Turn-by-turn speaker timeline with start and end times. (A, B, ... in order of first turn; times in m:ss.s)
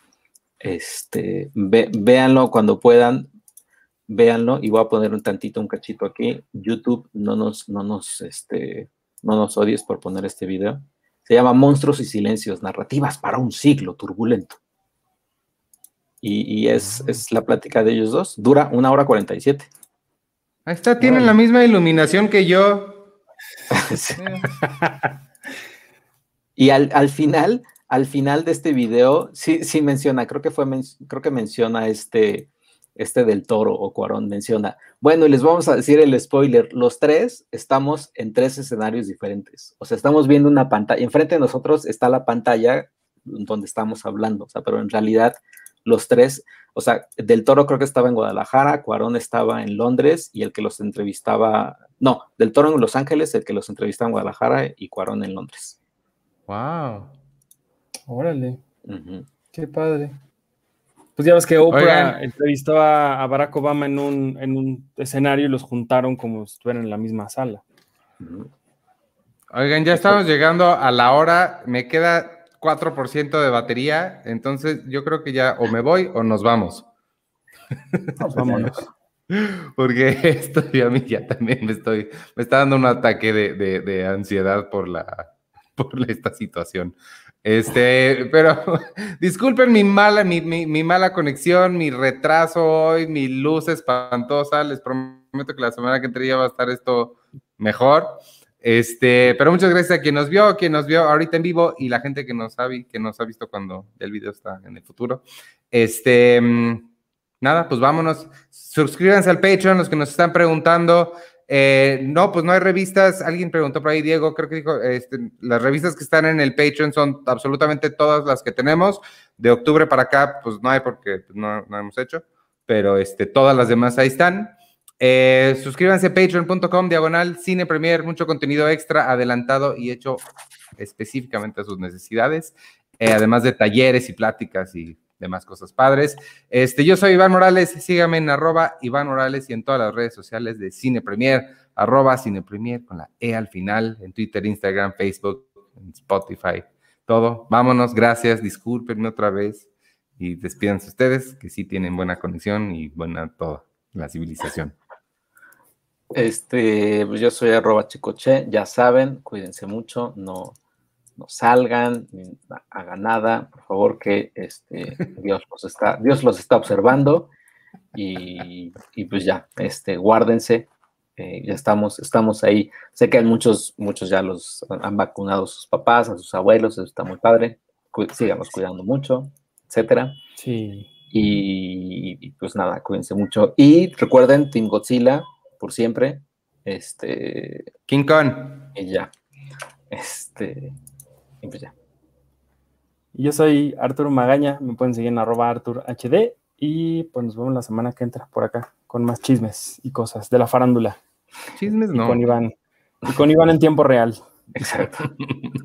0:00.6-0:03.3 A
0:04.1-0:14.6 A
0:16.2-0:19.7 A
0:20.7-0:23.1 B
0:21.0-0:21.3 C
0:23.7-0:24.2 A
0:24.2-0:24.6 B
0:24.6-0:25.0 C
0:26.6-0:55.8 A
0:56.5-0:57.1 B
0:58.1-0:58.6 C
0:58.9-0:59.3 A
0:59.5-1:00.2 C
1:01.2-1:07.6 C
1:01.7-1:02.2 B
1:08.2-1:08.5 A
1:09.5-1:16.9 B
1:09.9-1:10.2 A
1:18.2-1:18.9 C
1:18.2-1:18.8 A
1:19.3-1:46.9 B
1:47.4-2:10.2 B
2:10.8-2:29.7 B
2:30.2-2:34.8 B
2:36.1-2:40.6 A
2:41.2-2:47.3 A
2:47.9-3:00.2 A
3:00.4-3:00.9 C
3:01.1-3:07.7 A
3:07.9-3:08.7 B
3:08.7-3:09.1 A
3:09.9-3:10.7 A
3:11.4-3:11.7 A
3:13.2-3:21.0 C
3:21.6-3:22.2 B
3:21.9-3:22.5 C
3:23.0-3:24.2 C
3:24.6-3:25.1 A